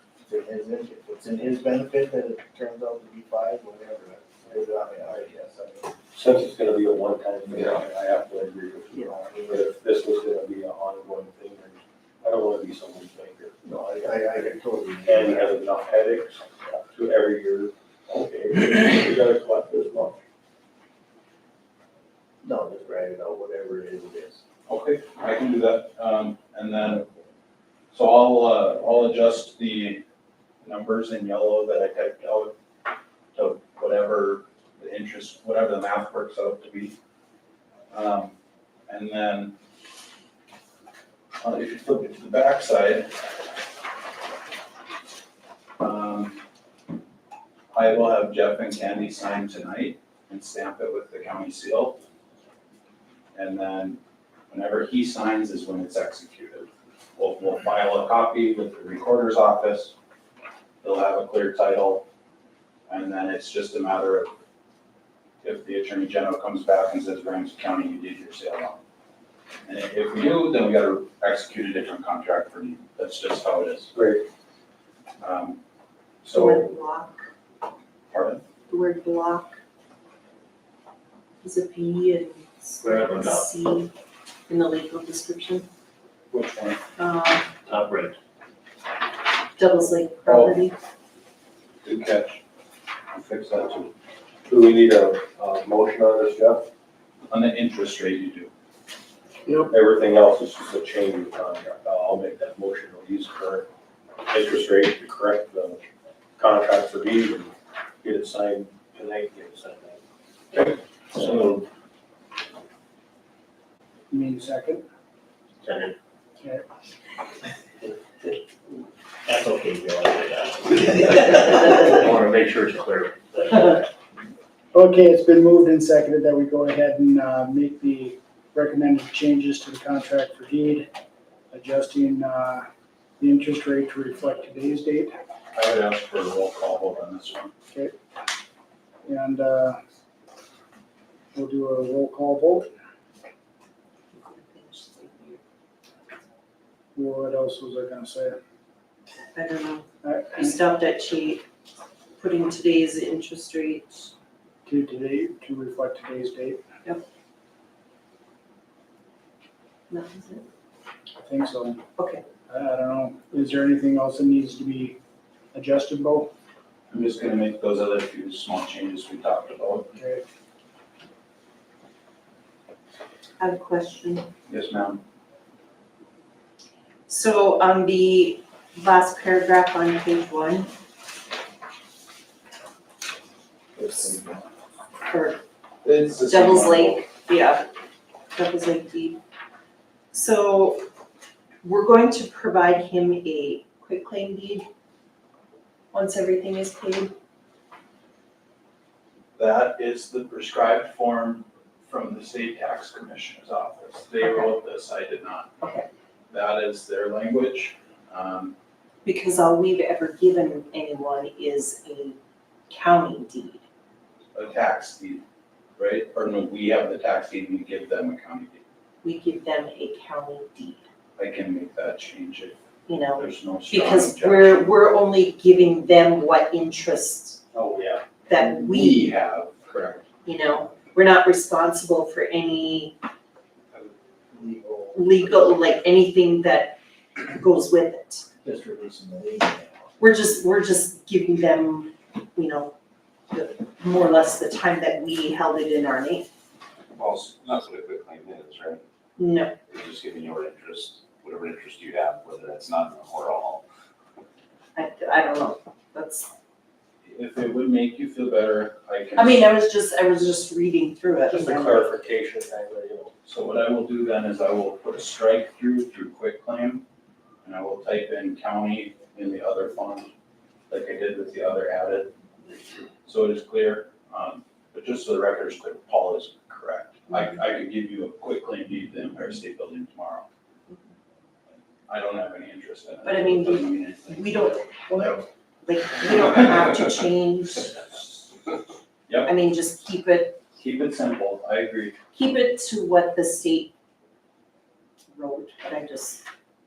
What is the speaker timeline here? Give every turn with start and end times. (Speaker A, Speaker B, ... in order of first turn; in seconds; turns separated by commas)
Speaker A: 0.2-5.9, Speaker B: 6.1-13.6, Speaker A: 8.9-9.6, Speaker A: 13.6-15.5, Speaker B: 15.0-20.2, Speaker A: 22.4-24.4, Speaker C: 24.7-27.0, Speaker C: 27.9-30.0, Speaker C: 30.6-32.5, Speaker C: 33.3-37.0, Speaker C: 37.9-39.5, Speaker C: 41.4-43.1, Speaker C: 45.8-46.4, Speaker C: 47.7-52.0, Speaker C: 53.3-59.9, Speaker C: 60.8-62.0, Speaker C: 62.9-64.3, Speaker C: 65.4-68.8, Speaker C: 69.7-73.9, Speaker B: 73.9-74.2, Speaker C: 75.2-75.6, Speaker C: 76.2-76.7, Speaker D: 76.3-77.2, Speaker C: 78.1-78.4, Speaker D: 78.7-79.6, Speaker D: 81.4-83.9, Speaker E: 82.8-83.5, Speaker D: 84.5-85.7, Speaker C: 86.3-86.8, Speaker D: 87.0-87.5, Speaker E: 87.7-88.1, Speaker D: 89.5-90.7, Speaker C: 90.2-90.6, Speaker C: 91.8-92.4, Speaker B: 93.1-93.9, Speaker B: 94.5-96.7, Speaker C: 97.3-98.5, Speaker B: 99.7-103.7, Speaker B: 104.2-105.8, Speaker B: 106.4-110.0, Speaker B: 110.5-111.5, Speaker F: 114.1-114.8, Speaker E: 120.3-123.8, Speaker B: 121.4-121.7, Speaker F: 124.7-130.9, Speaker F: 131.5-132.6, Speaker F: 133.2-135.1, Speaker C: 135.5-137.5, Speaker F: 139.0-139.8, Speaker F: 141.3-142.7, Speaker D: 144.1-145.4, Speaker F: 146.9-148.4, Speaker D: 149.3-151.4, Speaker F: 150.0-150.5, Speaker D: 152.2-154.1, Speaker F: 154.7-156.6, Speaker D: 159.9-160.4, Speaker F: 161.2-161.8, Speaker D: 162.0-162.2, Speaker F: 162.5-165.0, Speaker F: 165.5-166.3, Speaker C: 166.9-169.9, Speaker F: 169.9-170.2, Speaker D: 173.4-174.3, Speaker C: 174.5-175.0, Speaker D: 177.1-180.7, Speaker D: 185.1-185.4, Speaker C: 185.8-187.1, Speaker D: 186.3-187.7, Speaker D: 188.3-189.2, Speaker D: 190.1-190.8, Speaker D: 191.6-194.7, Speaker D: 195.9-197.1, Speaker C: 199.3-205.5, Speaker D: 205.6-205.9, Speaker C: 206.3-208.5, Speaker D: 209.0-212.2, Speaker D: 212.7-213.6, Speaker C: 214.3-215.2, Speaker C: 215.8-218.6, Speaker D: 219.0-220.8, Speaker C: 221.2-222.6, Speaker D: 222.9-227.4, Speaker C: 223.1-224.7, Speaker C: 227.5-230.0, Speaker D: 228.3-229.1, Speaker D: 230.2-232.9, Speaker A: 233.7-235.2, Speaker D: 234.9-236.8, Speaker D: 237.3-238.2, Speaker A: 238.4-239.8, Speaker D: 240.0-242.7, Speaker D: 243.3-246.3, Speaker G: 246.9-248.8, Speaker D: 249.2-249.5, Speaker G: 249.7-253.6, Speaker D: 254.7-256.3, Speaker C: 257.0-259.5, Speaker D: 259.1-261.9, Speaker B: 261.3-263.1, Speaker C: 263.2-266.8, Speaker C: 267.4-270.1, Speaker C: 270.7-280.3, Speaker C: 281.9-285.2, Speaker D: 283.0-287.9, Speaker C: 289.1-289.3, Speaker D: 289.2-290.4, Speaker C: 290.6-292.0, Speaker D: 292.1-293.7, Speaker D: 295.1-296.2